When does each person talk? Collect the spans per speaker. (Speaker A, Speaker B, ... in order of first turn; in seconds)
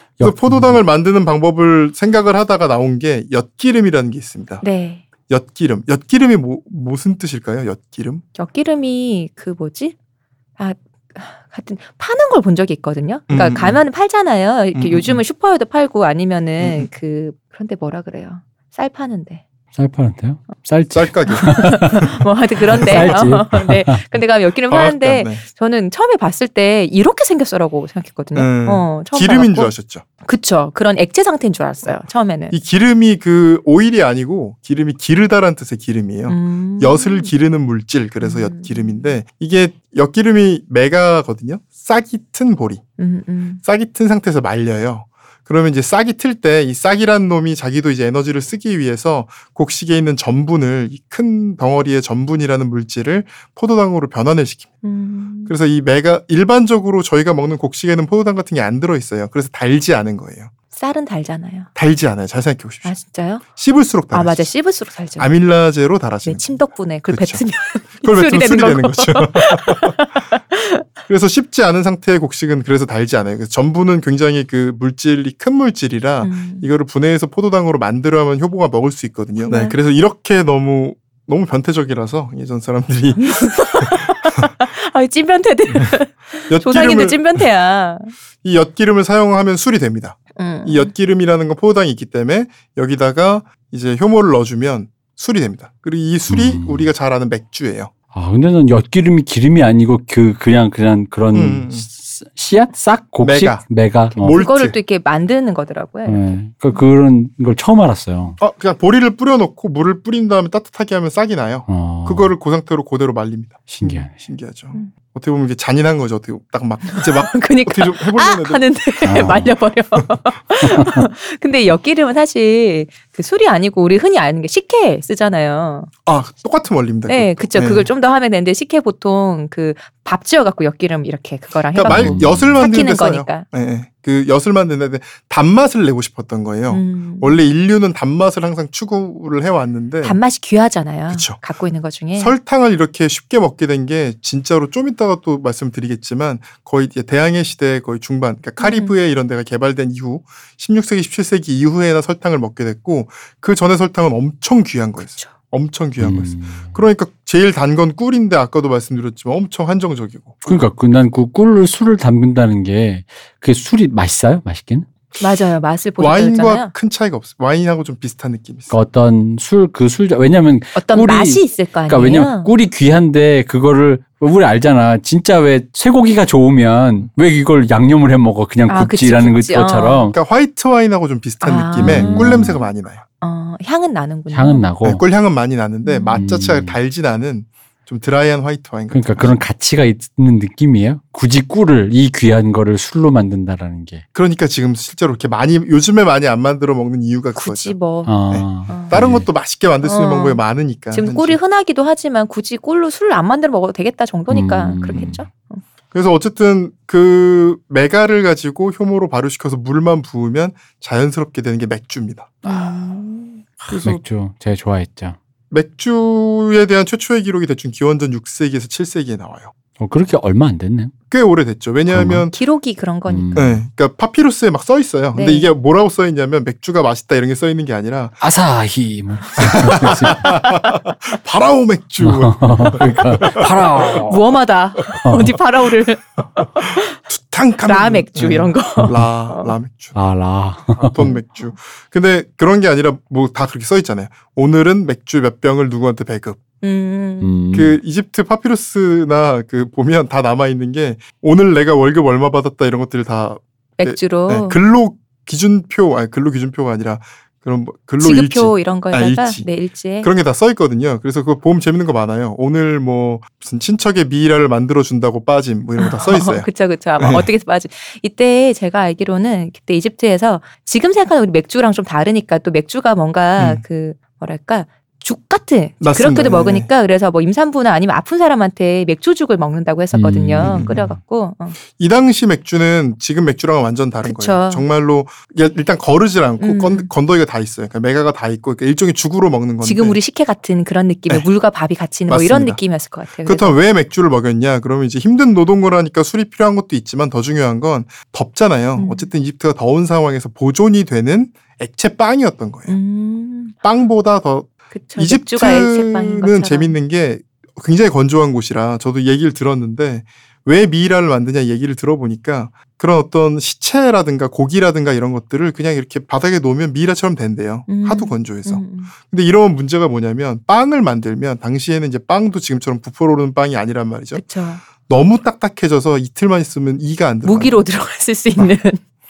Speaker A: 0.2-0.8, 19.7-22.1, 22.7-24.0, 96.3-96.9, 98.1-104.4, 106.0-108.4, 111.7-112.3, 113.7-114.2, 119.0-119.5, 131.9-132.6, 156.0-156.7, 160.4-164.9, 168.7-180.2, 181.8-182.6, 184.3-185.0, 186.1-186.8, 188.9-194.0, 198.0-199.3, 204.3-205.2, 213.7-215.2, 219.8-220.9, 221.9-222.2, 223.1-223.6, 228.2-230.4, 232.0-234.3, 235.0-235.4, 238.8-239.0, 239.9-241.1, 247.2-247.8, 279.9-280.8
Speaker B: 0.2-4.6, 5.3-8.2, 13.3-13.8, 14.7-15.2, 16.6-16.9, 20.9-22.1, 22.7-23.3, 24.7-25.4, 28.3-30.0, 32.5-42.8, 43.6-54.7, 55.5-60.5, 61.7-64.5, 65.2-67.4, 68.0-70.0, 71.1-84.1, 86.5-87.4, 88.4-97.9, 101.3-101.8, 103.2-103.6, 104.2-104.8, 108.4-118.7, 126.0-127.9, 131.7-140.2, 141.1-141.4, 142.2-160.6, 166.0-168.7, 180.1-183.0, 184.8-189.4, 194.1-197.8, 198.3-201.4, 205.9-212.8, 213.7-214.0, 215.5-219.5, 221.1-222.3, 223.3-228.2, 229.4-233.4, 237.1-239.9, 240.7-246.4, 247.5-259.5, 260.0-267.3, 273.4-273.6, 275.8-276.7, 280.4-281.0, 281.8-290.0, 292.1-292.6, 293.2-302.8, 303.6-324.2, 324.8-327.6
Speaker C: 4.6-5.0, 8.3-9.9, 10.6-19.4, 21.3-29.7, 30.2-32.5, 36.3-37.3, 38.2-39.1, 43.0-43.6, 54.8-55.5, 60.7-61.7, 62.8-63.4, 64.1-65.3, 66.2-70.8, 76.2-76.7, 79.4-79.8, 83.2-88.1, 90.3-90.9, 104.2-106.8, 116.8-125.9, 127.1-133.4, 136.7-137.4, 140.0-142.3, 148.6-148.9, 155.0-155.3, 165.2-166.7, 170.7-172.5, 178.7-180.1, 181.4-182.7, 183.2-184.6, 185.8-186.2, 197.3-198.1, 198.7-199.0, 199.8-205.6, 212.4-213.4, 222.3-223.4, 225.1-225.5, 234.1-237.0, 237.6-239.5, 246.6-247.3, 253.8-254.6, 258.0-260.1, 265.8-281.6, 284.0-284.7, 286.4-286.9, 289.6-293.6, 298.8-299.1, 302.7-303.5, 304.7-306.8, 317.7-318.9, 324.1-324.6, 327.2-328.8